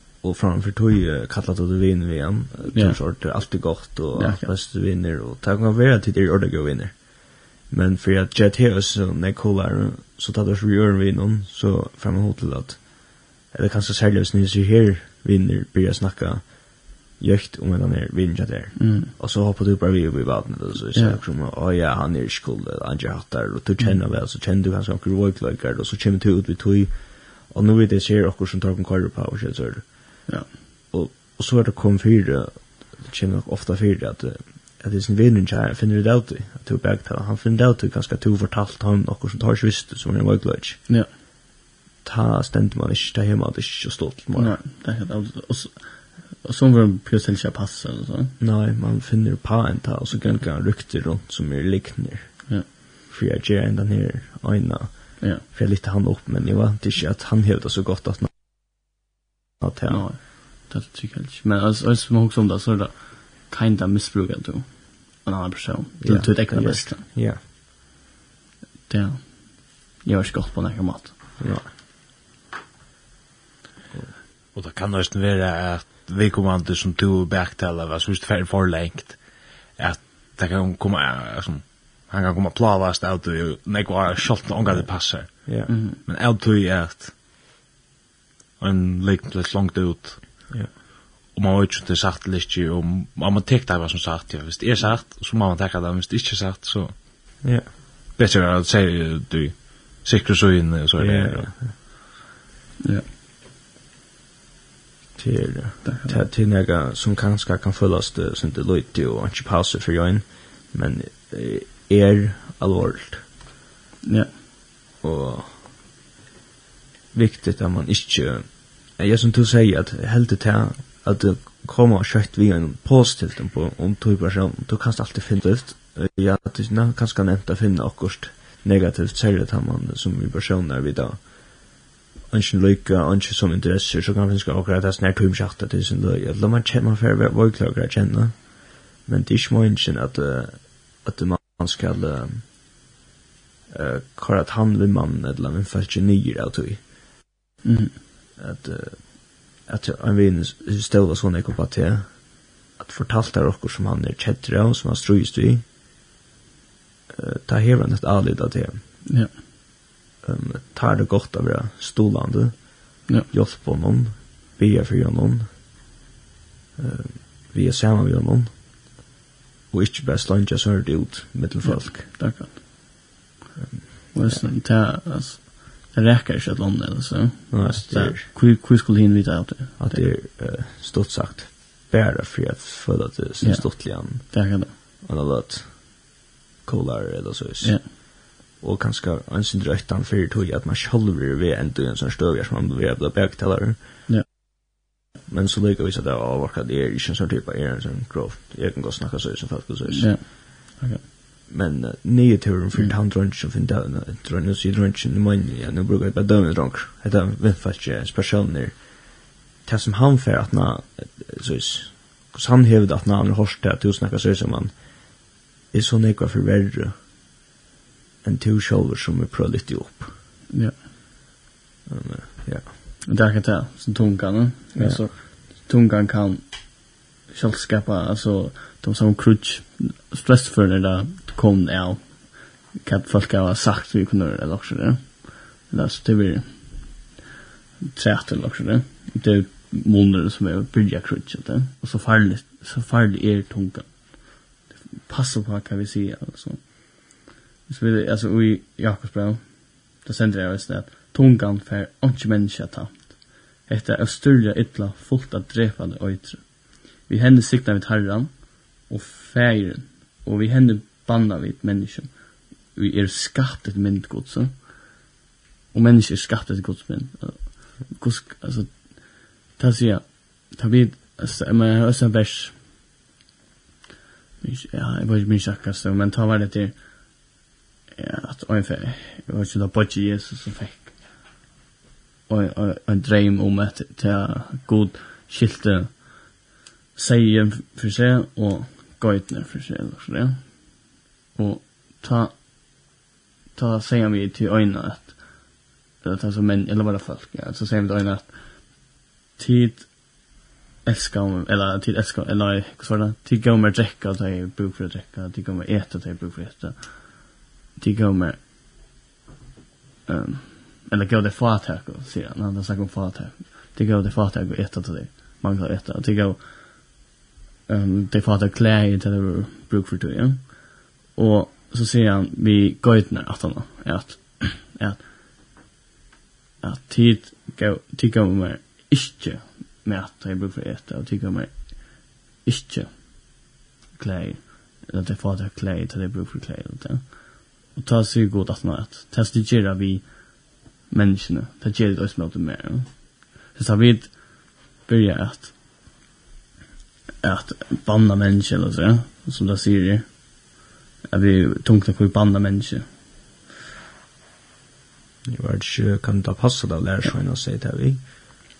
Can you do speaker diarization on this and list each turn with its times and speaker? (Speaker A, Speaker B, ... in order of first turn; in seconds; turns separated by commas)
Speaker A: 0.2-30.3, Speaker B: 2.7-4.5, Speaker B: 18.8-19.1, Speaker B: 20.9-21.2, Speaker A: 30.9-40.9, Speaker A: 42.0-44.6, Speaker B: 44.3-48.3, Speaker A: 48.4-58.8, Speaker B: 50.1-50.4, Speaker A: 59.6-60.0, Speaker B: 59.9-67.0, Speaker A: 66.0-67.4, Speaker B: 68.9-71.2, Speaker A: 71.4-71.7, Speaker C: 74.5-87.1, Speaker A: 84.7-85.7, Speaker B: 85.7-86.0, Speaker C: 88.6-90.7, Speaker C: 91.3-97.0, Speaker A: 97.4-97.7, Speaker C: 98.1-101.6, Speaker A: 101.0-101.7, Speaker A: 105.2-113.3, Speaker B: 105.8-106.2, Speaker B: 114.0-114.3, Speaker A: 115.0-115.7, Speaker A: 117.1-131.7, Speaker A: 132.3-142.5, Speaker A: 143.7-146.9, Speaker B: 147.6-147.9, Speaker A: 148.4-155.7, Speaker A: 157.1-159.0, Speaker A: 160.2-165.5, Speaker A: 166.8-168.7, Speaker A: 169.7-172.1, Speaker B: 171.6-172.6, Speaker A: 173.6-174.5, Speaker B: 174.1-180.1, Speaker A: 177.5-178.3, Speaker A: 179.8-194.0, Speaker B: 183.4-184.7, Speaker A: 195.3-200.3, Speaker B: 199.9-201.0, Speaker A: 201.5-217.0, Speaker A: 218.2-220.1, Speaker A: 221.8-222.7, Speaker B: 223.1-237.0, Speaker A: 224.8-225.1, Speaker B: 237.9-265.0, Speaker B: 265.7-272.6, Speaker B: 274.4-277.3, Speaker B: 278.0-281.1, Speaker B: 282.3-286.4, Speaker B: 286.9-292.6, Speaker B: 293.5-300.3, Speaker B: 300.8-308.4, Speaker B: 310.1-317.0, Speaker B: 317.7-325.1, Speaker B: 326.6-345.5, Speaker B: 347.2-350.5, Speaker B: 351.1-352.9, Speaker A: 355.2-358.1